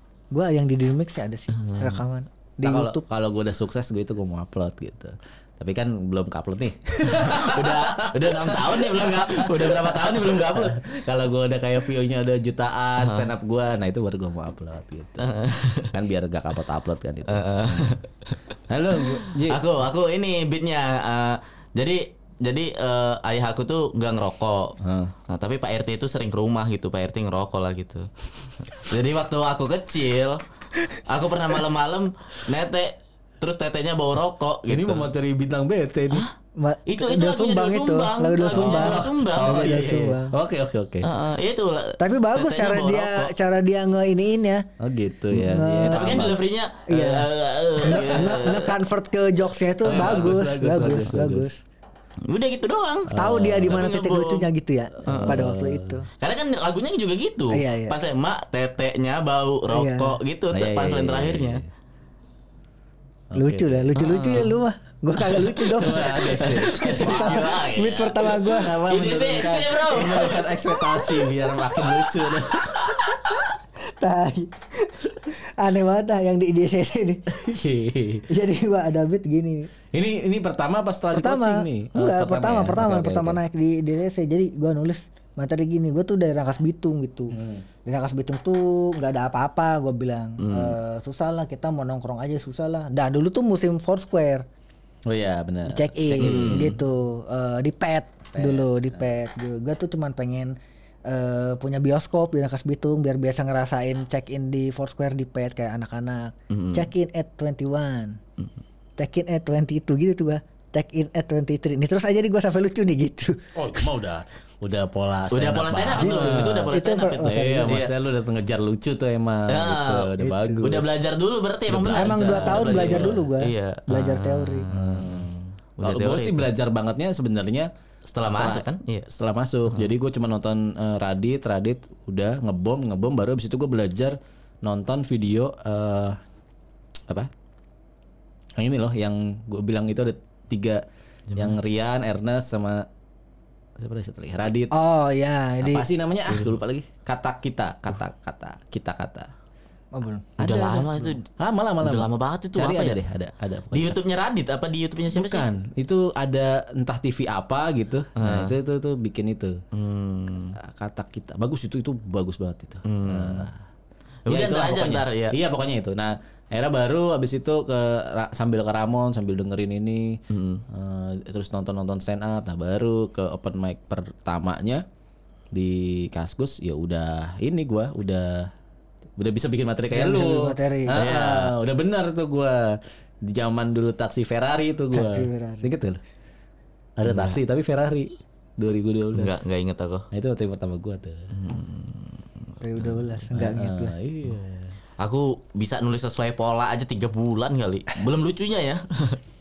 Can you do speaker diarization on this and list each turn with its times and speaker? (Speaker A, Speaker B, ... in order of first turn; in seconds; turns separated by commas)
Speaker A: 0.3-3.0, Speaker B: 1.6-2.0, Speaker C: 2.6-15.2, Speaker B: 7.0-10.8, Speaker B: 13.0-13.3, Speaker B: 15.2-15.9, Speaker C: 15.9-18.0, Speaker B: 17.3-18.4, Speaker C: 18.7-19.6, Speaker B: 19.0-28.1, Speaker C: 24.8-25.1, Speaker B: 28.6-30.4, Speaker B: 31.1-35.1, Speaker C: 34.7-36.2, Speaker A: 36.6-40.3, Speaker B: 36.9-40.0, Speaker C: 38.5-41.1, Speaker B: 41.0-43.3, Speaker A: 42.0-44.6, Speaker C: 44.8-46.4, Speaker A: 45.3-46.3, Speaker B: 45.8-48.8, Speaker A: 46.9-51.6, Speaker C: 47.9-48.3, Speaker C: 49.8-51.5, Speaker B: 49.9-50.3, Speaker B: 52.2-54.5, Speaker C: 53.1-53.8, Speaker A: 53.1-56.1, Speaker C: 55.0-56.0, Speaker B: 55.0-55.4, Speaker B: 56.2-61.6, Speaker A: 57.5-58.0, Speaker A: 59.7-60.2, Speaker C: 60.5-61.6, Speaker C: 63.3-64.4, Speaker A: 63.4-71.0, Speaker B: 63.9-64.5, Speaker C: 65.3-67.5, Speaker B: 65.6-70.5, Speaker C: 68.5-73.0, Speaker B: 71.6-73.4, Speaker A: 73.3-77.2, Speaker C: 77.3-78.3, Speaker A: 78.3-79.7, Speaker C: 79.9-83.4, Speaker A: 81.1-94.5, Speaker C: 87.3-87.6, Speaker B: 90.4-90.7, Speaker C: 95.0-96.8, Speaker A: 95.7-108.2, Speaker B: 96.2-96.8, Speaker C: 98.3-99.1, Speaker B: 106.5-106.9, Speaker A: 109.0-113.8, Speaker C: 113.5-116.7, Speaker B: 115.3-117.9, Speaker A: 116.0-117.8, Speaker C: 117.2-121.0, Speaker B: 119.5-125.2, Speaker A: 120.2-120.6, Speaker C: 121.7-123.2, Speaker A: 121.9-124.7, Speaker C: 124.7-127.7, Speaker B: 125.8-126.5, Speaker B: 128.1-129.1, Speaker C: 128.2-136.2, Speaker C: 138.6-140.8, Speaker B: 141.3-141.6, Speaker C: 141.3-142.9, Speaker C: 143.8-144.7, Speaker A: 144.7-145.9, Speaker C: 145.6-149.3, Speaker B: 146.3-146.5, Speaker A: 149.9-150.3, Speaker C: 150.4-154.0, Speaker B: 150.4-151.2, Speaker B: 151.8-153.0, Speaker B: 153.7-155.5, Speaker C: 155.1-159.6, Speaker B: 158.2-158.5, Speaker B: 159.7-160.6, Speaker C: 160.6-163.5, Speaker B: 162.8-163.5, Speaker B: 164.3-165.3, Speaker C: 164.3-174.8, Speaker B: 170.3-170.6, Speaker C: 175.5-178.5, Speaker C: 179.2-186.0, Speaker A: 179.9-181.0, Speaker B: 180.9-181.5, Speaker A: 184.9-185.7, Speaker C: 187.0-189.4, Speaker B: 187.1-187.4, Speaker B: 189.1-190.1, Speaker C: 190.1-191.3, Speaker B: 191.3-193.0, Speaker A: 192.6-193.9, Speaker C: 193.3-194.8, Speaker B: 195.0-199.2